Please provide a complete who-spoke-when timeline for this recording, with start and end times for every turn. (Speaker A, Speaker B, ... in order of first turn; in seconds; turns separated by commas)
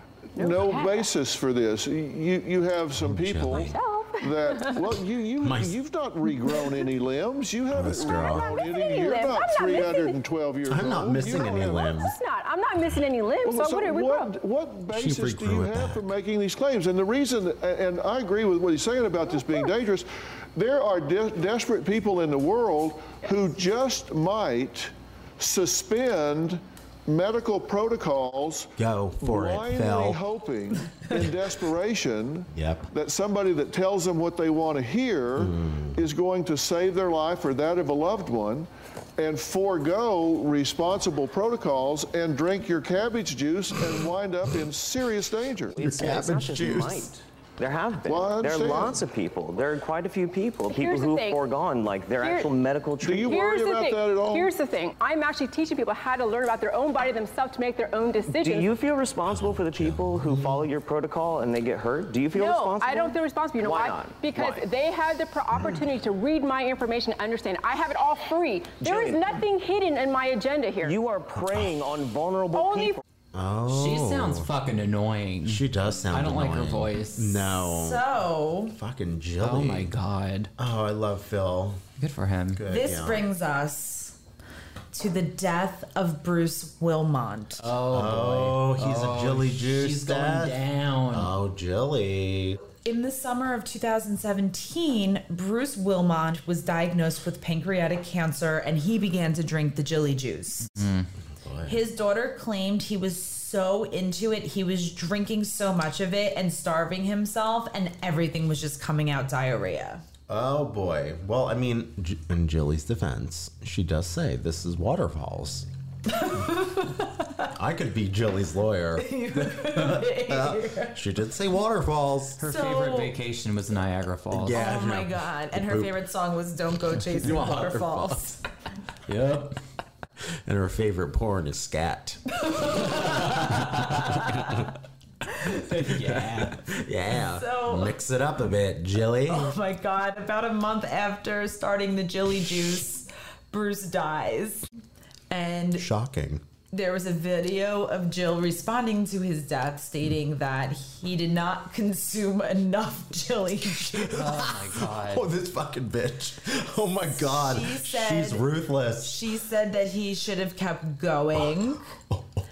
Speaker A: 0.3-12.0, Speaker B: 0.3-1.1, Speaker C: 3.0-3.8, Speaker B: 3.5-4.8, Speaker C: 5.4-5.7, Speaker B: 6.5-6.8, Speaker C: 7.7-8.5, Speaker B: 8.0-10.2, Speaker C: 10.7-12.2, Speaker B: 11.2-14.3, Speaker A: 13.4-45.8, Speaker C: 14.9-16.1, Speaker C: 28.8-30.2, Speaker C: 32.5-32.9, Speaker C: 35.4-36.0, Speaker D: 45.7-53.5, Speaker C: 45.8-47.1, Speaker A: 48.0-49.0, Speaker B: 50.7-51.4, Speaker B: 52.2-52.5, Speaker A: 53.0-54.5, Speaker B: 53.2-58.7, Speaker D: 58.3-64.6, Speaker C: 59.3-60.6, Speaker B: 62.3-71.0, Speaker D: 68.8-69.4, Speaker D: 70.8-73.0, Speaker C: 71.4-71.7, Speaker B: 72.5-73.0, Speaker C: 73.3-74.5, Speaker E: 73.7-77.4, Speaker C: 75.4-78.1, Speaker F: 77.5-78.8, Speaker C: 78.7-79.9, Speaker E: 79.4-80.5, Speaker C: 80.6-81.8, Speaker E: 82.0-82.6, Speaker C: 82.5-83.3, Speaker F: 82.7-84.2, Speaker F: 84.9-87.7, Speaker E: 87.6-91.3, Speaker C: 87.9-92.6, Speaker F: 92.8-100.7, Speaker E: 100.7-101.1, Speaker C: 101.4-101.8, Speaker F: 101.7-110.0, Speaker C: 110.3-115.7, Speaker F: 116.1-117.5, Speaker C: 117.5-122.4, Speaker F: 119.0-121.0, Speaker E: 122.4-124.6, Speaker F: 122.4-123.2, Speaker C: 124.3-125.9, Speaker F: 124.5-128.4, Speaker C: 127.1-128.4, Speaker E: 129.1-129.6, Speaker C: 130.4-134.7, Speaker F: 132.4-133.6, Speaker E: 133.0-134.3, Speaker F: 134.2-134.6, Speaker E: 135.6-136.7, Speaker C: 135.9-139.6, Speaker F: 137.1-137.9, Speaker F: 139.3-144.7, Speaker F: 145.3-145.9, Speaker C: 145.8-146.4, Speaker F: 146.7-154.2, Speaker C: 153.9-159.2, Speaker E: 154.1-155.3, Speaker F: 157.0-158.4, Speaker F: 159.0-161.8, Speaker C: 161.3-162.3